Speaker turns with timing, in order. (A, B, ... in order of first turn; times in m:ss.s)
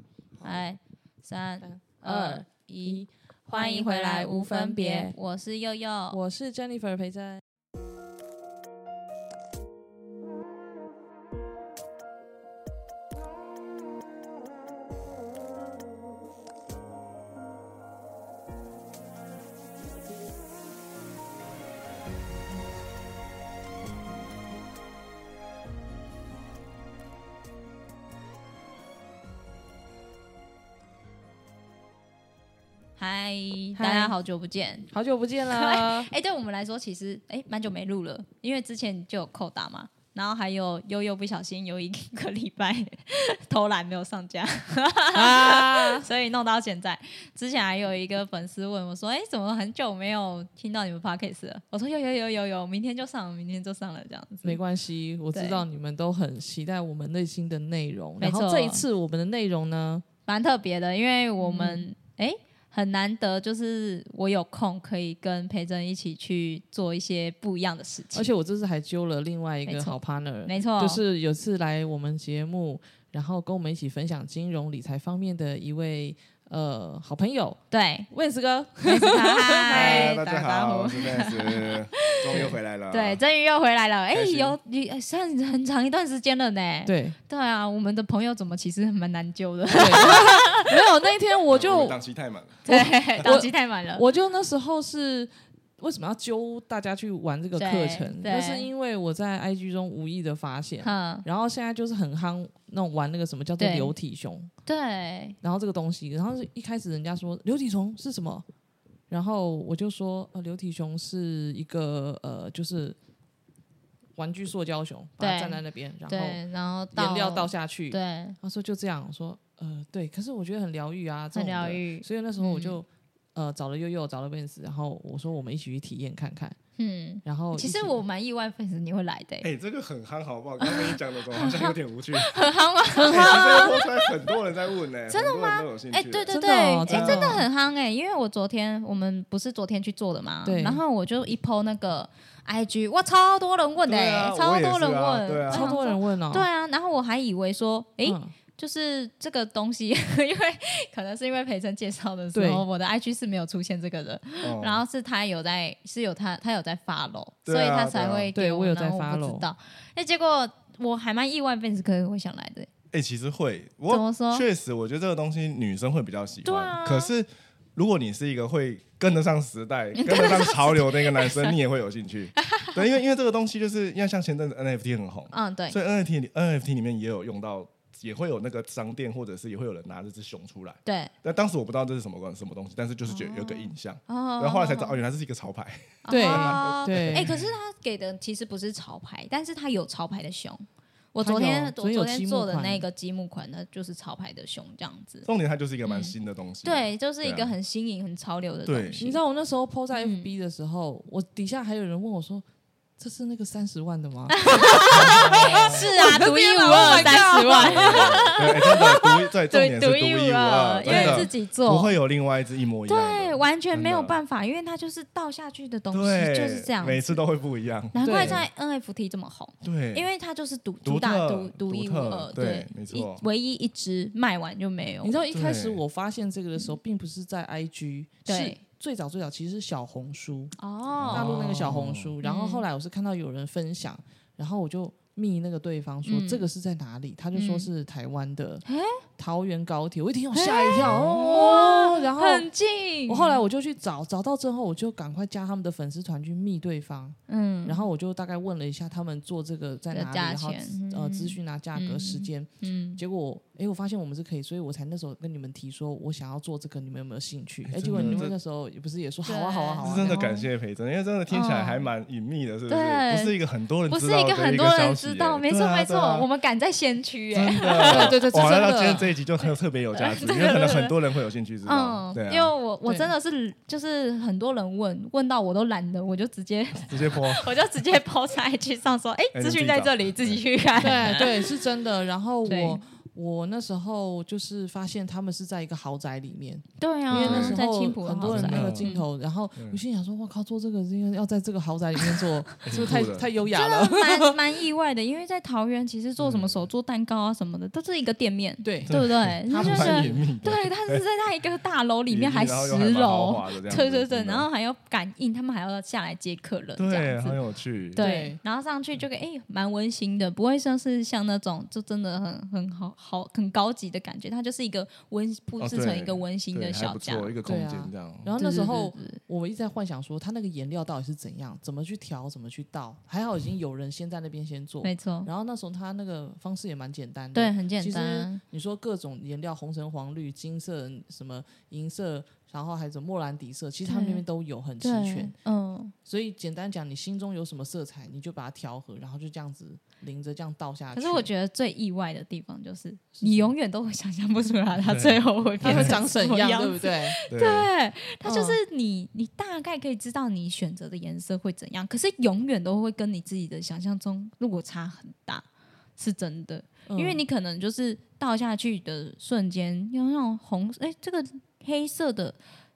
0:00.4-0:00.6 A
0:00.4-0:06.2 B
0:01.6-0:05.2 A
0:06.1-0:07.4 A
0:33.0-0:34.9 B
0:33.8-0:34.2 A
0:34.9-0:36.1 A
0:35.5-0:54.6 B
0:45.2-0:46.1 A
0:54.4-1:00.0 A
0:55.3-0:55.6 B
0:58.2-0:58.8 B
1:00.3-1:08.3 B
1:01.4-1:01.9 A
1:08.1-1:20.2 A
1:09.7-1:11.0 B
1:17.7-1:18.1 B
1:18.8-1:30.7 B
1:19.7-1:23.2 C
1:24.1-1:24.6 C
1:26.8-1:27.2 A
1:29.7-1:32.0 A
1:31.5-1:33.3 C
1:32.6-1:34.0 B
1:32.6-1:44.5 A
1:37.6-1:38.7 B
1:40.8-1:41.3 B
1:43.6-1:43.9 B
1:44.7-1:45.4 B
1:45.4-1:48.4 A
1:49.1-1:53.0 A
1:54.2-2:06.6 A
1:55.2-1:58.4 B
2:01.3-2:02.8 B
2:06.8-2:09.5 B
2:07.2-2:08.0 A
2:09.4-2:12.3 C
2:10.6-2:14.4 B
2:13.0-2:13.7 A
2:13.1-2:16.4 C
2:15.1-2:42.7 B
2:16.3-2:17.5 A
2:16.9-2:17.4 C
2:20.4-2:20.8 A
2:23.8-2:25.8 C
2:25.5-2:26.5 A
2:28.0-2:28.3 A
2:32.4-2:32.6 A
2:34.4-2:34.8 C
2:37.4-2:38.3 C
2:38.4-2:39.5 A
2:42.9-3:07.5 C
2:43.9-2:44.5 B
2:46.4-2:47.1 B
2:50.0-2:51.6 B
2:52.4-2:52.8 B
2:55.3-2:55.8 B
3:00.8-3:01.1 B
3:03.1-3:05.0 B
3:06.0-3:15.3 B
3:06.1-3:07.4 A
3:11.2-3:12.9 A
3:15.2-3:17.5 C
3:15.8-3:19.2 B
3:18.7-3:19.0 C
3:19.0-3:22.4 A
3:20.0-3:20.3 B
3:23.0-3:28.6 A
3:24.3-3:32.0 B
3:24.6-3:25.9 C
3:27.6-3:34.2 C
3:30.8-3:31.3 A
3:32.9-3:37.2 B
3:35.9-3:38.5 C
3:37.9-3:45.2 B
3:38.0-3:38.4 A
3:39.6-3:40.1 C
3:40.8-3:43.2 C
3:45.0-3:50.6 A
3:45.3-3:45.8 C
3:48.3-3:48.6 B
3:50.6-3:51.4 B
3:50.9-3:52.2 C
3:51.1-3:58.6 A
3:52.2-3:52.6 B
3:56.0-3:56.5 B
3:57.3-3:57.7 B
3:58.6-3:59.0 B
3:59.2-4:02.5 A
4:00.3-4:03.4 B
4:00.8-4:01.5 C
4:03.1-4:20.2 A
4:07.3-4:07.8 B
4:09.9-4:13.0 B
4:17.7-4:18.4 C
4:17.9-4:18.3 B
4:19.2-4:20.5 B
4:19.8-4:26.3 C
4:21.3-4:21.8 B
4:22.7-4:31.0 B
4:27.3-4:32.5 C
4:27.8-4:29.0 A
4:31.6-4:41.5 B
4:32.9-4:33.1 A
4:36.8-4:37.6 C
4:39.3-4:41.2 C
4:40.8-4:54.4 A
4:42.4-4:42.8 B
4:46.8-4:49.0 B
4:47.1-4:47.6 C
4:48.2-4:48.9 C
4:49.6-4:49.8 C
4:52.7-4:53.3 C
4:53.5-5:07.4 B
4:56.2-4:56.7 C
4:58.6-5:00.2 A
4:58.9-5:01.0 C
5:02.1-5:04.5 C
5:06.8-5:08.1 C
5:07.9-5:17.4 B
5:08.0-5:08.4 A
5:15.6-5:18.3 C
5:17.4-5:35.4 A
5:18.4-5:19.2 B
5:24.8-5:25.3 B
5:27.3-5:28.4 B
5:33.8-5:34.2 B
5:34.8-5:35.9 B
5:36.1-5:41.3 A
5:40.9-5:55.4 B
5:43.2-5:43.5 A
5:44.8-5:46.0 C
5:45.6-5:47.2 A
5:47.3-5:47.7 C
5:48.2-5:48.6 A
5:56.0-6:02.4 B
5:56.9-5:57.2 A